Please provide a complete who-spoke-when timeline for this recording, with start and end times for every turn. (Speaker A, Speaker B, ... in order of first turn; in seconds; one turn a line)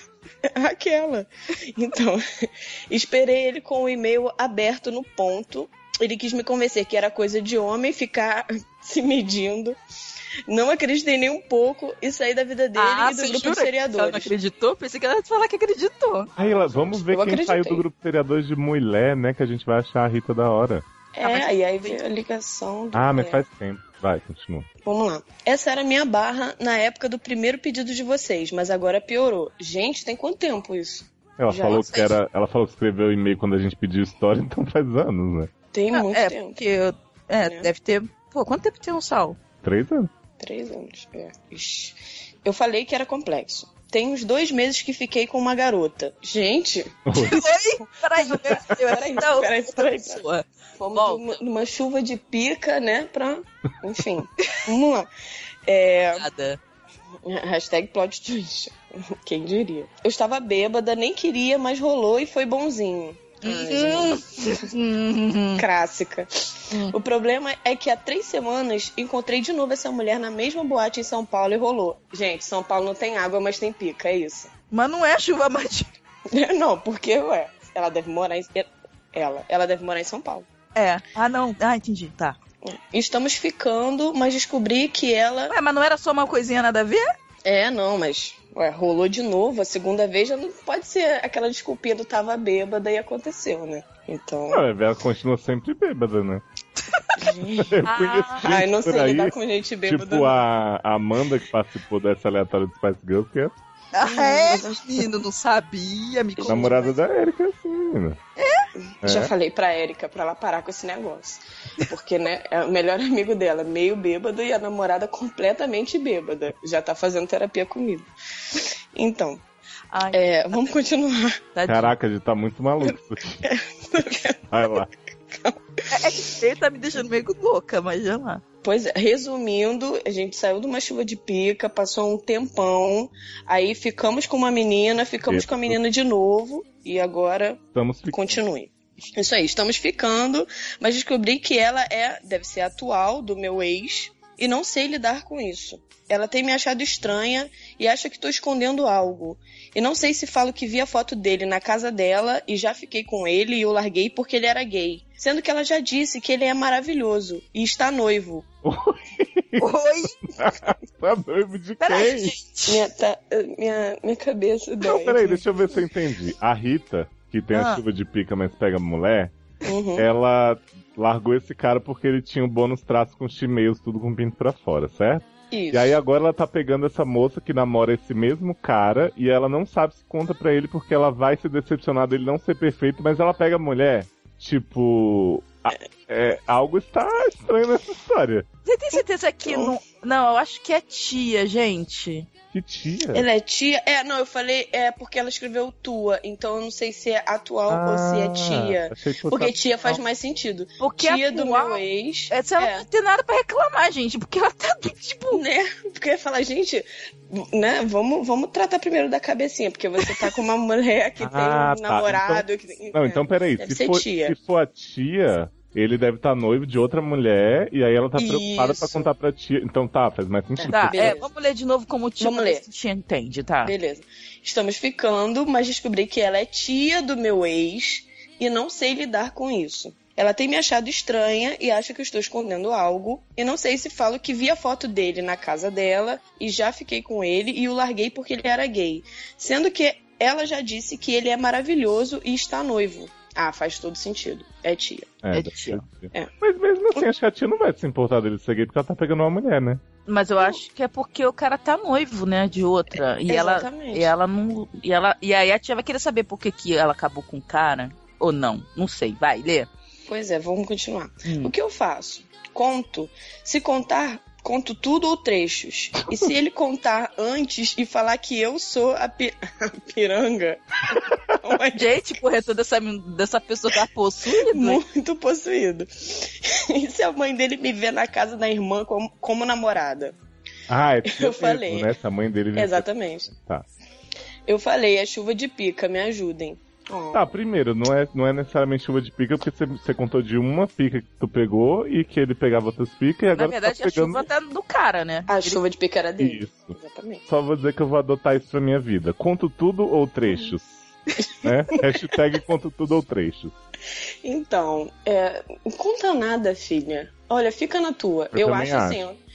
Speaker A: 0.5-9.8
Speaker A: 10.5-14.3
Speaker B: 12.8-16.3
Speaker C: 16.4-20.8
Speaker A: 16.8-17.8
Speaker A: 21.1-23.4
Speaker B: 21.2-22.0
Speaker C: 22.9-24.7
Speaker A: 24.8-32.0
Speaker C: 31.4-35.5
Speaker A: 35.7-36.6
Speaker B: 35.9-39.4
Speaker A: 37.4-37.7
Speaker C: 39.6-40.1
Speaker A: 40.4-50.2
Speaker C: 47.0-47.4
Speaker B: 47.1-51.3
Speaker A: 50.8-55.1
Speaker A: 55.6-56.3
Speaker B: 56.1-56.6
Speaker A: 57.2-64.7
Speaker B: 63.4-65.6
Speaker A: 65.6-74.5
Speaker B: 74.7-75.9
Speaker A: 76.3-80.5
Speaker B: 80.7-82.4
Speaker A: 82.6-85.5
Speaker B: 85.5-87.1
Speaker A: 87.4-94.6
Speaker C: 94.5-96.4
Speaker A: 97.2-97.8
Speaker C: 97.6-99.3
Speaker B: 97.8-98.5
Speaker A: 98.4-100.4
Speaker C: 99.8-103.5
Speaker B: 103.9-106.9
Speaker A: 104.0-105.1
Speaker A: 106.4-106.9
Speaker C: 106.5-108.2
Speaker B: 108.4-108.7
Speaker A: 109.0-119.4
Speaker C: 109.0-109.3
Speaker B: 119.9-120.2
Speaker A: 120.1-121.4
Speaker B: 121.5-121.9
Speaker C: 121.7-123.4
Speaker A: 123.4-126.3
Speaker C: 124.5-124.9
Speaker B: 125.9-128.4
Speaker A: 128.6-158.4
Speaker C: 135.3-135.8
Speaker C: 137.7-138.4
Speaker C: 158.6-159.7
Speaker B: 159.6-160.2
Speaker C: 160.3-162.3
Speaker B: 161.8-162.8
Speaker A: 162.7-165.4
Speaker C: 164.8-169.3
Speaker B: 167.5-167.8
Speaker A: 169.6-170.1
Speaker C: 169.9-188.5
Speaker A: 175.5-176.0
Speaker B: 188.7-192.3
Speaker A: 188.9-189.8
Speaker C: 192.5-193.2
Speaker A: 193.1-202.8
Speaker C: 197.7-199.9
Speaker B: 200.8-205.4
Speaker A: 205.3-214.4
Speaker C: 211.2-221.1
Speaker A: 218.2-219.1
Speaker A: 220.6-221.3
Speaker B: 220.7-223.7
Speaker A: 222.2-222.6
Speaker A: 223.6-245.1
Speaker C: 245.2-249.8
Speaker B: 245.3-245.8
Speaker B: 250.1-259.7
Speaker A: 253.3-254.1
Speaker A: 260.1-272.1
Speaker B: 261.2-261.5
Speaker C: 271.0-271.3
Speaker B: 271.7-274.8
Speaker A: 274.2-280.1
Speaker C: 280.7-283.6
Speaker A: 281.0-281.9
Speaker A: 282.5-283.3
Speaker A: 284.5-287.3
Speaker C: 287.1-294.3
Speaker B: 293.4-295.6
Speaker A: 295.3-297.2
Speaker C: 296.2-296.8
Speaker C: 297.3-300.8
Speaker C: 301.4-303.5
Speaker A: 304.2-309.2
Speaker C: 308.3-309.0